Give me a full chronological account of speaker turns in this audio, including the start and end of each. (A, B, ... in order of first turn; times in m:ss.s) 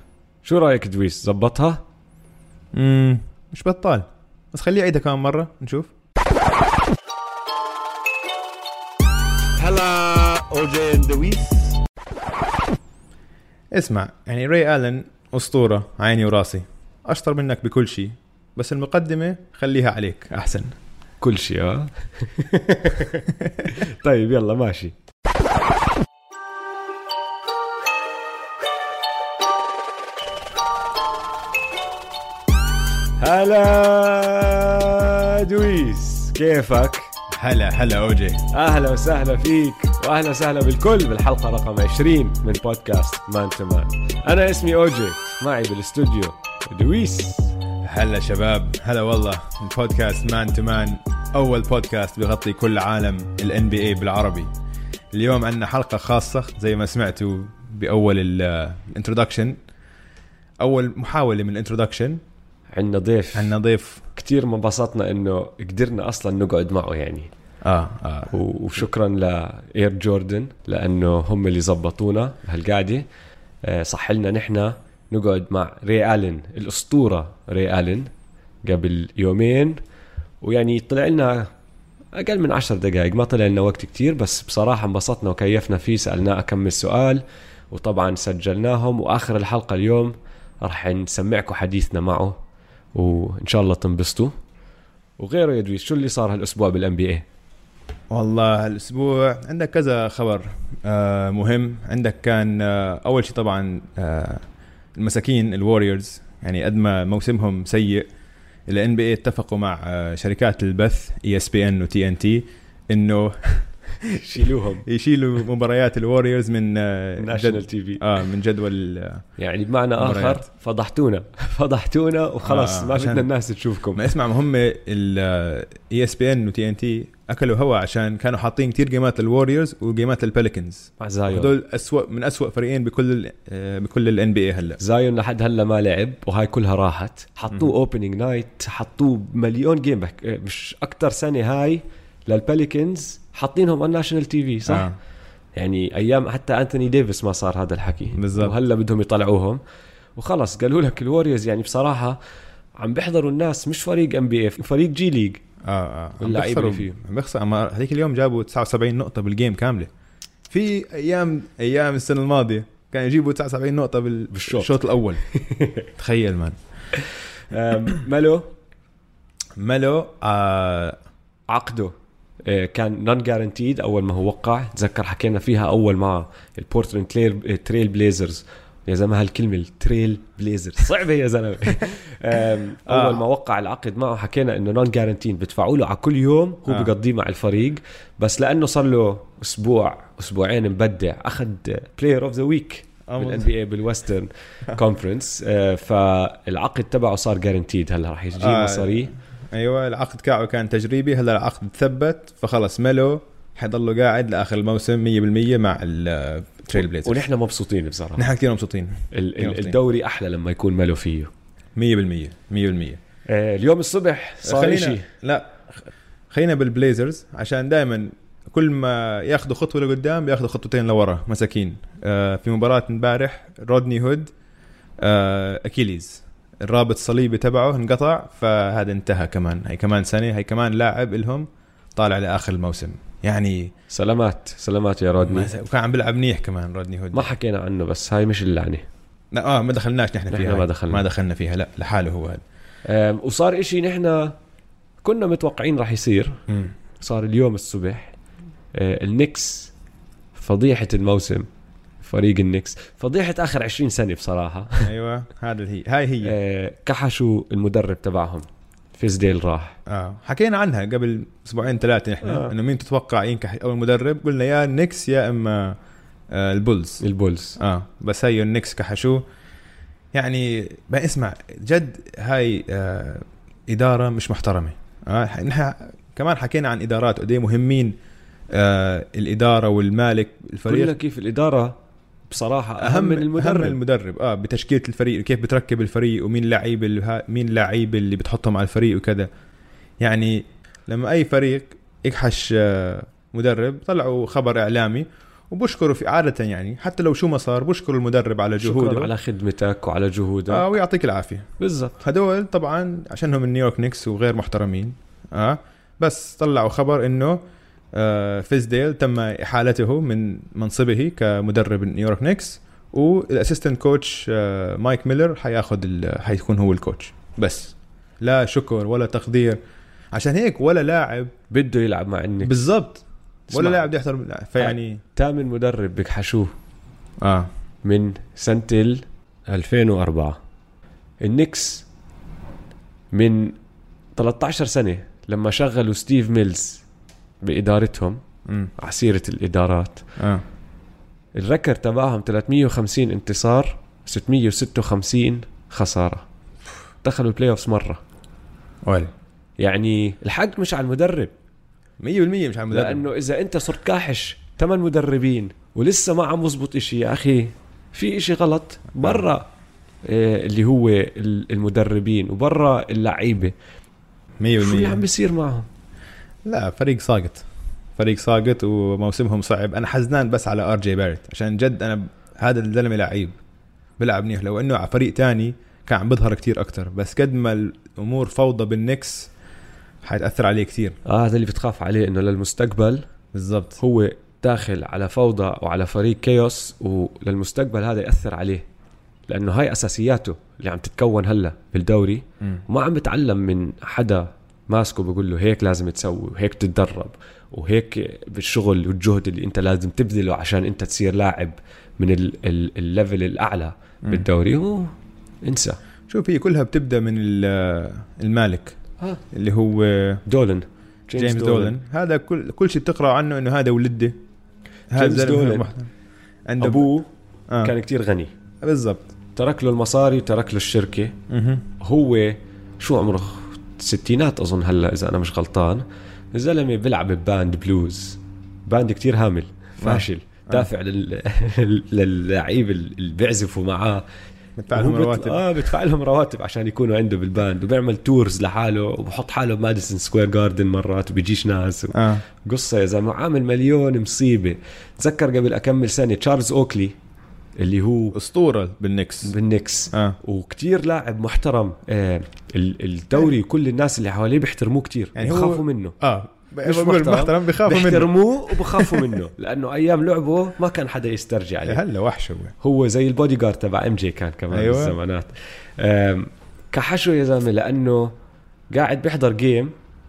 0:00.4-0:01.8 A
0:02.7-0:05.9 B
0:09.6-0:11.8 C
0:13.7-0:20.7 B
0:21.2-0:24.9 A
0:33.2-0:37.1 A
0:37.3-0:38.4 B
0:38.5-0:47.5 A
0:47.8-0:54.5 B
0:55.1-0:59.6 B
1:00.6-1:02.2 B
1:02.7-1:03.5 A
1:03.3-1:04.0 B
1:04.1-1:07.3 A
1:07.6-1:08.3 B
1:08.3-1:13.0 A
1:13.6-1:18.1 A
1:18.6-1:19.8 A
1:20.4-1:21.5 A
1:22.1-1:32.4 A
1:32.9-1:34.3 A
1:35.2-1:37.2 A
1:38.1-1:44.4 B
1:45.0-1:48.1 B
1:48.7-1:53.7 B
1:54.1-1:54.8 A
1:54.4-1:59.2 B
1:57.2-1:58.2 A
1:59.4-2:04.1 A
2:00.0-2:00.4 B
2:02.4-2:03.3 B
2:03.9-2:14.8 B
2:11.0-2:11.5 A
2:14.8-2:24.9 A
2:24.7-2:25.0 B
2:25.6-2:29.6 A
2:28.2-2:28.6 B
2:30.2-2:32.2 A
2:32.8-2:35.4 A
2:35.6-2:39.9 B
2:36.2-2:37.0 A
2:40.5-2:45.2 B
2:44.3-2:44.7 A
2:45.3-2:45.8 A
2:46.0-2:46.6 B
2:47.0-2:48.5 A
2:49.6-2:51.0 B
2:51.5-3:19.1 A
3:02.9-3:03.2 B
3:06.7-3:06.9 B
3:13.1-3:13.5 B
3:18.4-3:27.2 B
3:26.7-3:28.2 A
3:28.2-3:29.8 B
3:29.1-3:31.3 A
3:31.8-3:33.0 B
3:33.3-3:35.1 A
3:34.4-3:35.8 B
3:36.3-3:44.3 B
3:45.0-3:53.7 B
3:53.9-3:55.5 A
3:55.2-3:57.3 B
3:57.1-3:58.8 A
3:59.3-4:02.4 B
4:00.3-4:01.0 A
4:02.9-4:04.3 A
4:05.0-4:06.4 A
4:07.0-4:08.1 A
4:08.7-4:09.7 A
4:10.3-4:11.5 A
4:12.0-4:14.9 A
4:14.8-4:16.3 B
4:16.2-4:19.8 A
4:19.9-4:25.8 B
4:22.2-4:22.5 A
4:26.3-4:27.0 B
4:27.0-4:27.6 A
4:27.6-4:29.2 B
4:30.1-4:37.9 B
4:38.5-4:40.9 B
4:40.6-4:41.8 A
4:42.3-4:43.8 A
4:42.8-4:49.3 B
4:50.0-4:59.1 B
4:58.6-5:00.7 A
5:00.5-5:07.4 B
5:01.6-5:01.9 A
5:07.9-5:19.6 B
5:20.1-5:21.3 B
5:21.5-5:22.6 A
5:22.4-5:25.0 B
5:23.5-5:23.9 A
5:24.6-5:26.5 A
5:27.2-5:27.5 B
5:27.8-5:30.4 A
5:31.2-5:31.8 A
5:33.1-5:33.6 A
5:34.2-5:36.8 A
5:37.4-5:38.2 A
5:38.8-5:40.0 A
5:40.2-5:40.4 B
5:41.3-5:46.2 A
5:47.0-5:48.0 A
5:48.8-5:49.1 B
5:49.6-5:51.3 A
5:52.0-5:53.0 B
5:52.7-5:59.4 A
5:59.0-5:59.2 B
6:00.0-6:03.5 A
6:04.4-6:05.0 B
6:04.6-6:05.7 A
6:06.4-6:07.4 B
6:08.0-6:13.4 B
6:14.0-6:19.3 B
6:20.0-6:21.0 B
6:21.0-6:23.0 A
6:23.3-6:23.8 B
6:23.8-6:28.6 A
6:29.3-6:44.9 A
6:45.4-6:45.8 A
6:46.1-6:48.8 B
6:49.3-6:50.2 B
6:50.2-6:51.8 A
6:51.1-6:54.2 B
6:54.9-6:55.7 A
6:54.9-6:55.9 B
6:56.5-6:56.9 B
6:56.6-6:57.1 A
6:57.6-6:58.3 A
6:58.6-6:59.1 B
6:59.4-7:01.1 A
7:01.3-7:01.6 B
7:01.8-7:14.0 A
7:09.8-7:10.7 B
7:14.6-7:15.5 B
7:14.7-7:27.0 A
7:21.9-7:22.2 B
7:27.6-7:28.2 A
7:28.1-7:29.3 B
7:29.2-7:36.0 A
7:35.2-7:39.1 B
7:36.6-7:41.8 A
7:41.6-7:42.5 B
7:42.6-7:48.1 A
7:44.5-7:45.0 B
7:48.7-7:49.7 A